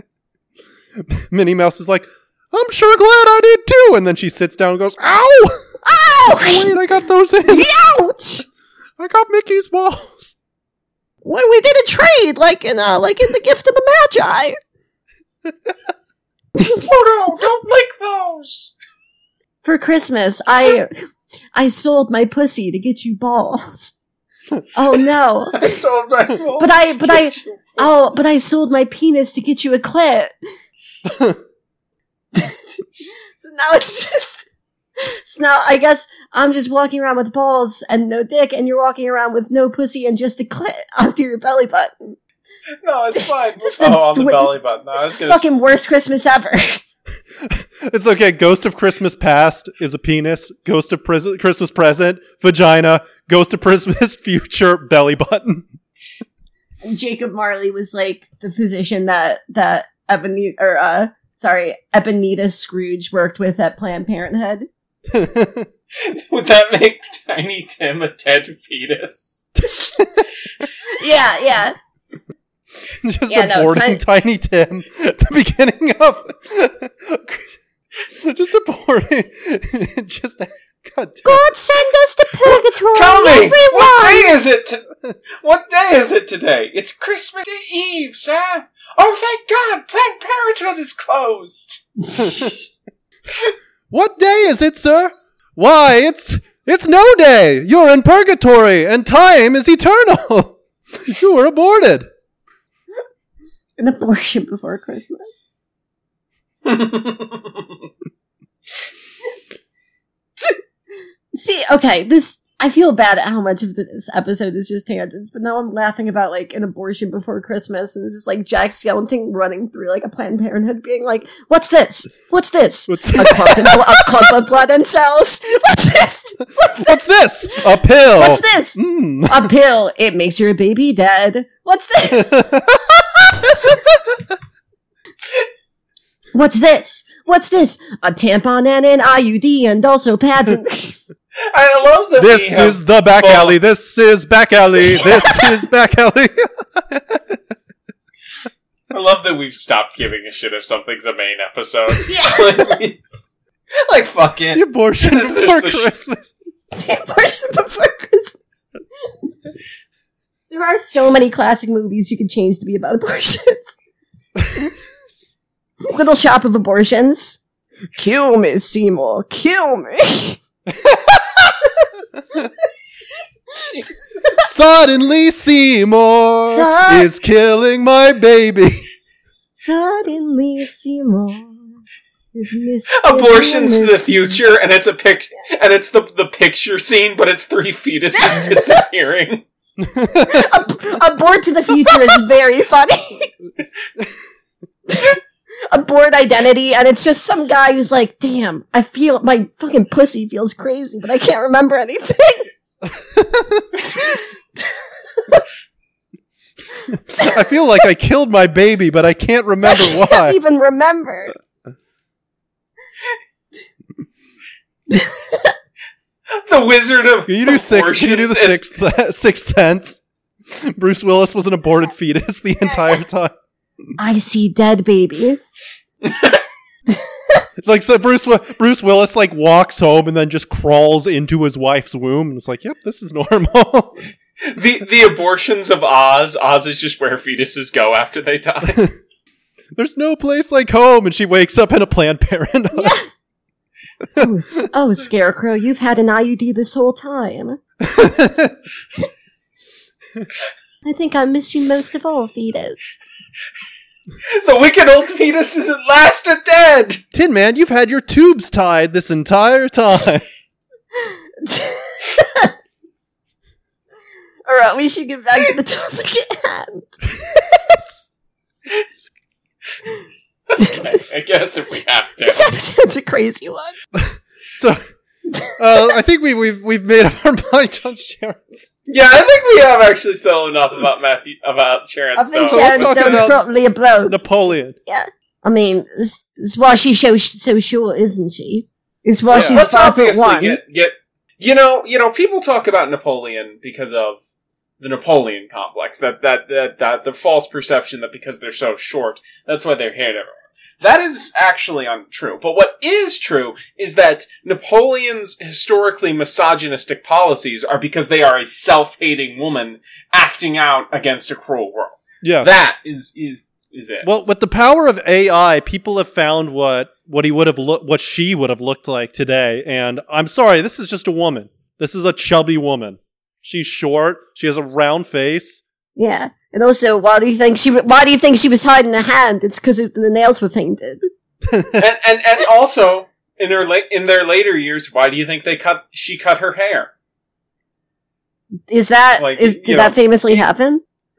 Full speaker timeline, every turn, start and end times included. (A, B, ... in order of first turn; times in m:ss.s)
0:01.0-0:05.7 A
0:05.8-0:06.7 B
0:06.2-0:07.7 A
0:07.5-0:08.4 B
0:09.0-0:10.3 A
0:11.2-0:14.6 B
0:16.7-0:18.7 C
0:19.6-0:20.9 B
0:21.5-0:24.0 B
0:24.7-0:25.8 B
0:25.5-0:27.9 C
0:26.6-0:30.3 B
0:31.0-0:31.4 A
0:33.3-0:34.5 B
0:35.0-0:42.2 B
0:42.8-0:45.4 C
0:43.2-0:46.8 B
0:47.4-0:55.7 A
0:56.8-1:04.7 B
1:05.1-1:05.7 A
1:06.0-1:09.5 C
1:09.6-1:10.3 A
1:10.9-1:11.7 B
1:13.0-1:21.4 A
1:13.3-1:14.0 B
1:21.2-1:24.3 B
1:22.9-1:24.8 C
1:25.4-1:32.6 C
1:32.2-1:32.5 A
1:33.9-1:42.1 A
1:43.8-1:45.5 B
1:46.6-1:47.6 C
1:51.3-2:12.5 B
2:02.9-2:04.1 A
2:06.7-2:09.5 A
2:12.1-2:14.2 A
2:16.3-2:21.0 B
2:21.5-2:23.6 C
2:22.2-2:27.4 A
2:25.0-2:25.4 B
2:28.9-2:33.0 C
2:32.0-2:32.8 B
2:33.8-2:35.9 C
2:34.5-2:36.3 A
2:36.7-2:38.5 B
2:40.5-2:43.8 B
2:44.4-2:44.7 A
2:45.8-2:47.4 B
2:47.9-2:50.4 B
2:54.4-2:58.8 A
2:56.4-2:57.1 B
2:59.5-3:01.7 B
3:02.3-3:04.4 B
3:02.9-3:09.4 C
3:08.1-3:08.8 B
3:09.8-3:10.5 A
3:10.1-3:13.3 B
3:14.9-3:15.2 B
3:15.7-3:22.5 B
3:22.9-3:23.7 A
3:23.9-3:25.4 B
3:26.9-3:30.4 A
3:29.6-3:31.3 B
3:34.9-3:35.5 B
3:36.3-3:38.6 C
3:37.3-3:43.3 A
3:44.0-3:45.5 B
3:46.0-3:46.4 C
3:46.9-3:47.4 B
3:47.6-3:54.0 A
3:54.5-3:58.9 C
3:58.7-3:58.9 A
3:59.7-4:02.9 A
4:02.7-4:03.1 B
4:04.2-4:07.6 B
4:07.8-4:08.6 A
4:10.8-4:13.0 B
4:14.3-4:17.0 C
4:17.1-4:20.2 A
4:21.1-4:22.5 B
4:24.4-4:27.4 B
4:30.5-4:32.5 C
4:32.2-4:33.7 B
4:33.9-4:34.8 A
4:35.3-4:35.8 B
4:35.6-4:38.7 A
4:38.9-4:43.2 C
4:42.2-4:44.2 B
4:42.5-4:43.4 A
4:44.1-4:44.8 A
4:44.8-4:50.6 B
4:49.3-4:49.6 A
4:49.4-4:54.2 C
4:54.8-5:14.1 C
5:12.2-5:12.5 A
5:14.0-5:25.6 A
5:26.0-5:31.0 B
5:31.5-5:31.8 A
5:31.8-5:36.9 C
5:38.7-5:40.8 B
5:39.2-5:40.0 C